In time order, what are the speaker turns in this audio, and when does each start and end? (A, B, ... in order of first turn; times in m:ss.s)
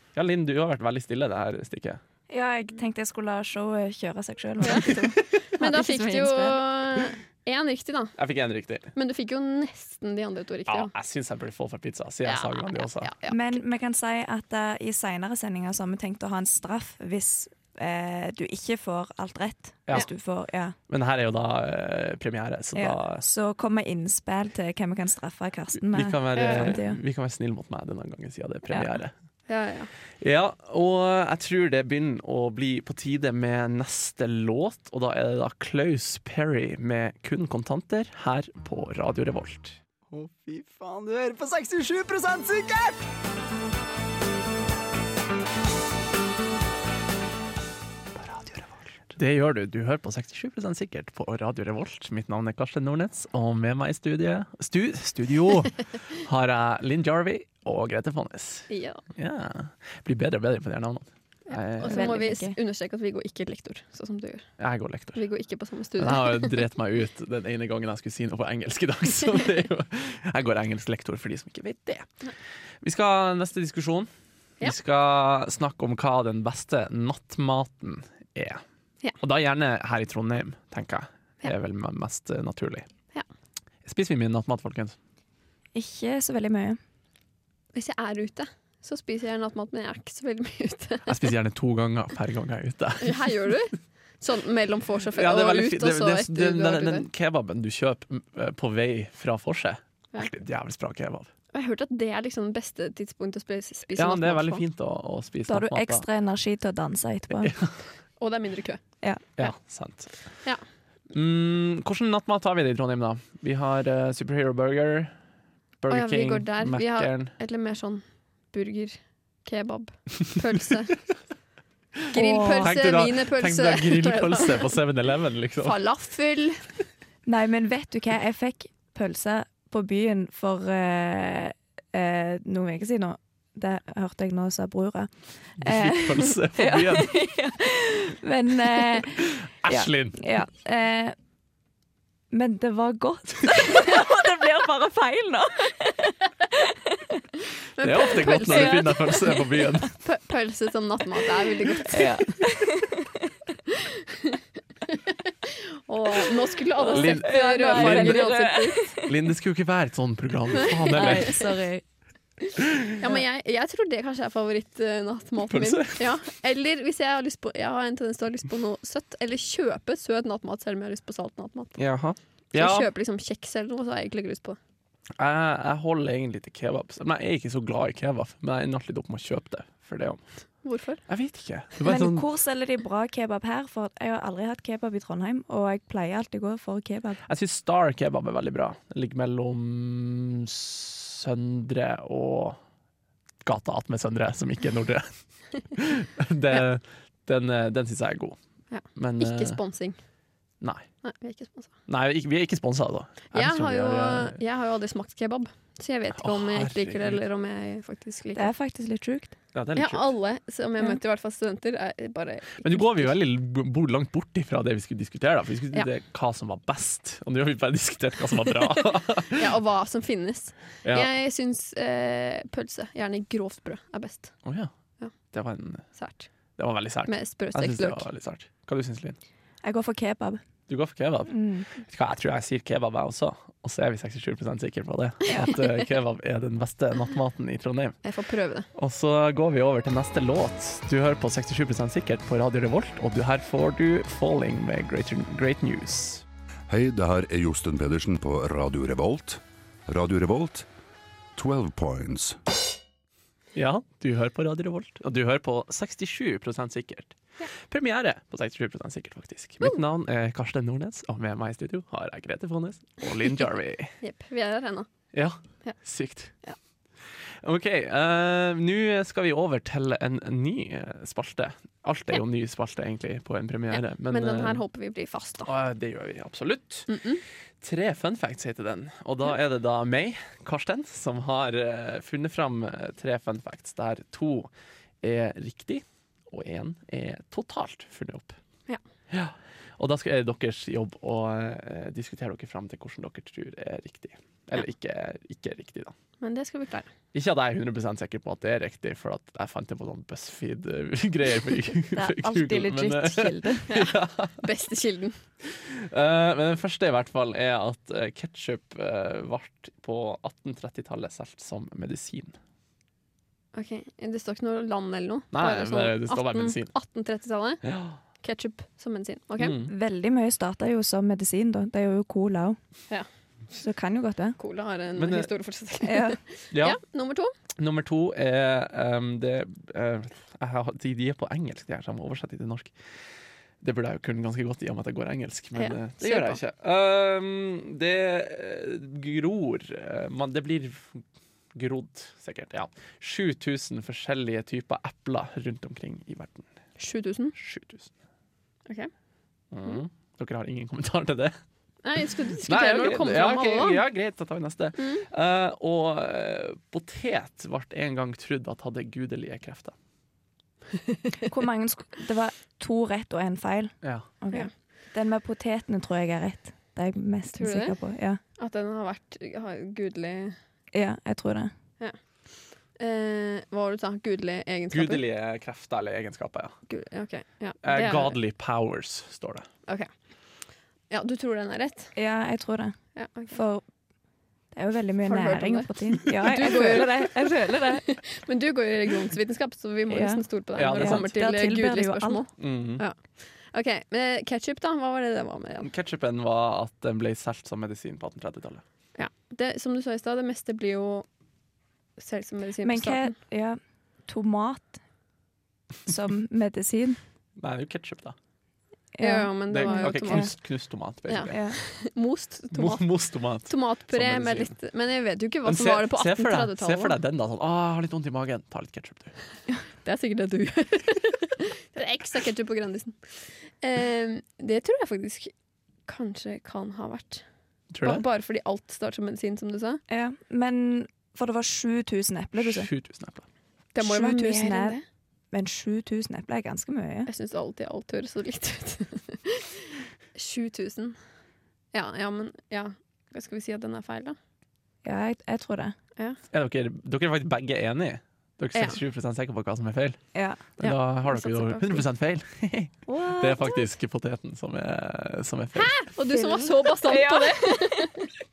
0:00.2-0:02.0 A
0:02.3-0:06.6 B
0:04.6-0:08.2 C
0:08.2-0:08.9 A
0:09.0-0:10.9 C
0:10.7-0:13.1 A
0:12.2-0:13.5 C
0:13.3-0:20.8 B
0:20.9-0:23.2 A
0:22.8-0:27.0 B
0:25.9-0:29.1 A
0:26.4-0:26.8 C
0:28.7-0:29.0 B
0:29.5-0:29.9 C
0:30.2-0:39.8 A
0:40.1-0:43.0 D
0:48.2-1:02.2 A
0:58.7-0:59.0 C
1:01.5-1:04.5 C
1:01.8-1:02.6 B
1:04.6-1:05.2 A
1:05.2-1:06.7 C
1:06.0-1:12.1 A
1:12.8-1:14.1 A
1:14.6-1:18.6 A
1:19.2-1:22.9 A
1:23.8-1:25.0 A
1:25.8-1:26.8 B
1:27.7-1:31.3 C
1:31.1-1:33.5 A
1:33.0-1:37.1 C
1:35.1-1:41.3 A
1:41.5-1:44.6 C
1:44.0-1:46.0 A
1:45.5-1:47.5 B
1:47.4-1:47.8 A
1:48.2-1:48.8 C
1:49.4-1:50.1 A
1:51.1-1:55.1 A
1:55.8-1:57.3 A
1:55.9-2:01.0 C
2:02.1-2:04.7 C
2:02.1-2:02.8 B
2:02.6-2:05.8 A
2:05.6-2:06.6 C
2:07.3-2:21.2 B
2:15.6-2:17.2 A
2:18.9-2:20.2 A
2:22.3-2:27.2 B
2:27.8-2:29.3 C
2:27.8-2:30.0 A
2:28.4-2:29.3 B
2:30.0-2:32.3 C
2:31.9-2:33.2 B
2:34.0-2:34.4 C
2:34.9-2:38.8 C
2:36.8-2:39.1 B
2:36.9-2:41.5 A
2:40.6-2:41.5 C
2:40.9-2:41.8 B
2:43.0-2:51.8 C
2:45.5-2:46.1 A
2:51.8-2:52.9 A
2:52.5-2:54.6 C
2:55.2-3:00.2 A
3:00.6-3:01.0 C
3:01.1-3:02.3 A
3:01.8-3:07.2 B
3:07.2-3:12.6 A
3:13.4-3:15.1 A
3:15.6-3:18.4 A
3:18.7-3:20.0 C
3:18.9-3:19.6 A
3:21.0-3:21.7 C
3:21.9-3:24.4 A
3:23.3-3:28.5 C
3:26.1-3:27.2 A
3:28.4-3:29.3 B
3:29.5-3:30.1 A
3:29.8-3:33.0 C
3:32.6-3:39.5 A
3:39.3-3:44.4 C
3:40.8-3:41.1 A
3:44.4-3:44.7 A
3:45.3-3:45.8 A
3:46.0-3:46.3 C
3:46.6-3:49.2 A
3:47.1-3:48.0 C
3:49.6-3:50.4 B
3:50.7-3:58.0 A
3:51.3-3:51.7 B
3:55.4-3:55.7 C
3:58.0-3:58.7 C
3:58.7-4:06.2 A
4:06.7-4:10.7 E
4:11.4-4:12.4 E
4:13.5-4:23.9 A
4:24.0-4:24.9 C
4:25.1-4:26.3 A
4:27.4-4:34.6 A
4:33.7-4:35.5 C
4:35.4-4:36.9 A
4:36.9-4:37.2 C
4:37.6-4:44.5 A
4:45.0-4:48.4 A
4:49.1-4:56.0 A
4:56.2-4:56.9 C
4:57.1-5:04.5 A
5:01.9-5:03.7 B
5:03.7-5:05.2 C
5:05.4-5:12.4 A
5:13.5-5:17.6 C
5:15.3-5:16.7 A
5:17.6-5:18.0 A
5:18.2-5:19.6 C
5:19.4-5:19.7 A
5:19.7-5:22.6 B
5:23.6-5:24.4 B
5:24.4-5:27.3 C
5:25.0-5:25.3 A
5:25.8-5:26.2 B
5:26.5-5:26.8 A
5:27.6-5:32.7 A
5:33.6-5:46.5 A
5:35.6-5:36.4 C
5:46.8-5:47.4 C
5:47.4-5:47.9 A
5:49.5-5:51.4 A
5:51.8-5:53.8 C
5:52.4-5:59.8 A
5:54.8-5:55.1 C
6:01.3-6:08.2 B
6:03.8-6:04.1 A
6:07.4-6:07.8 C
6:08.4-6:10.4 C
6:10.7-6:11.5 B
6:12.8-6:15.0 C
6:14.7-6:16.6 A
6:16.7-6:18.2 C
6:17.6-6:19.5 A
6:20.9-6:21.9 C
6:22.0-6:22.8 B
6:23.0-6:23.4 C
6:23.3-6:23.6 B
6:24.5-6:27.8 B
6:25.1-6:35.7 C
6:29.9-6:32.2 B
6:30.6-6:31.1 A
6:32.4-6:32.8 A
6:35.6-6:38.6 A
6:39.0-6:41.1 C
6:42.0-6:43.1 C
6:42.6-6:44.8 B
6:45.9-6:47.0 B
6:47.4-6:48.2 A
6:49.0-6:50.3 B
6:49.0-6:50.4 C
6:49.5-6:51.4 A
6:51.1-6:57.0 C
6:51.3-6:51.6 B
6:52.5-6:54.6 A
6:55.4-6:59.1 A
6:59.8-7:05.3 C
7:05.9-7:07.2 C
7:07.7-7:08.1 A
7:07.8-7:09.8 C
7:09.9-7:12.7 B
7:12.4-7:13.3 A
7:13.8-7:14.8 C
7:13.8-7:14.8 B
7:15.3-7:17.1 B
7:17.1-7:21.0 C
7:21.7-7:24.2 C
7:24.8-7:25.8 B
7:26.3-7:30.0 A
7:30.1-7:30.4 B
7:30.6-7:35.8 A
7:31.1-7:31.6 B
7:32.9-7:33.7 B
7:35.6-7:38.1 C
7:36.1-7:38.1 B